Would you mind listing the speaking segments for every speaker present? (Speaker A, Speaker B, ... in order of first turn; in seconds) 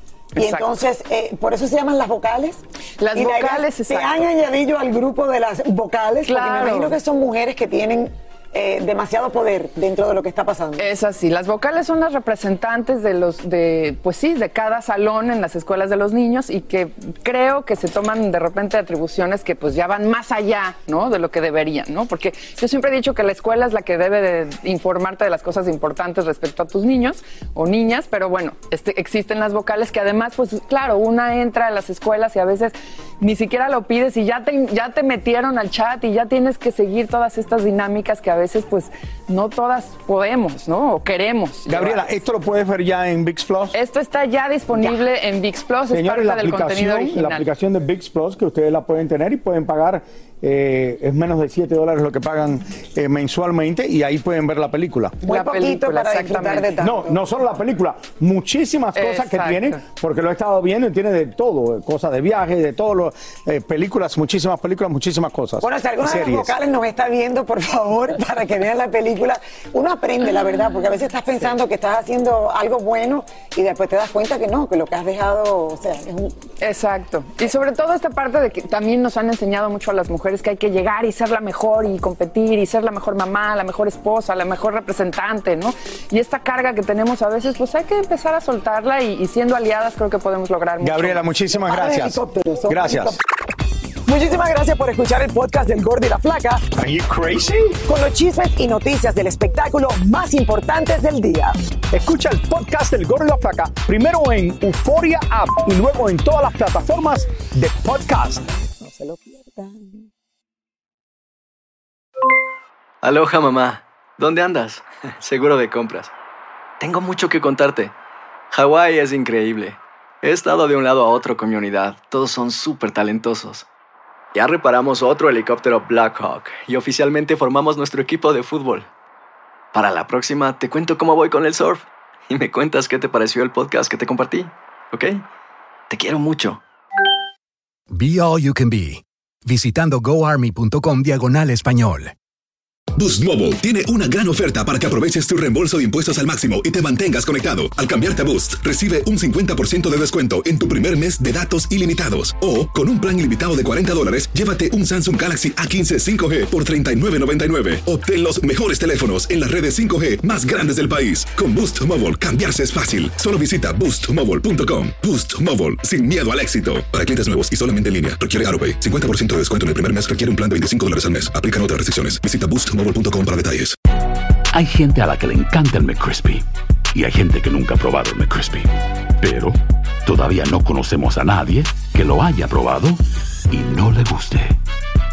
Speaker A: 0.4-0.7, 3.0-4.2, 6.3-7.0, 10.8-42.1, 43.7-47.5, 55.3-56.8, 59.0-59.8, 76.6-91.3
Speaker B: 0.4-2.6, 3.1-10.9, 55.2-57.2, 65.6-76.4, 91.5-93.2, 94.1-96.7, 97.9-101.6, 108.8-110.1
Speaker C: 41.7-43.8, 45.9-55.2, 56.8-66.5, 90.8-93.2, 96.8-97.8, 101.9-108.5
Speaker D: 113.0-116.1, 116.8-117.9, 118.5-123.7, 124.3-128.9, 129.7-135.2, 135.9-136.6
Speaker E: 137.9-142.1
Speaker F: 143.0-173.8
Speaker G: 174.6-176.4, 176.9-178.6, 179.2-179.6, 180.1-183.0, 183.6-184.4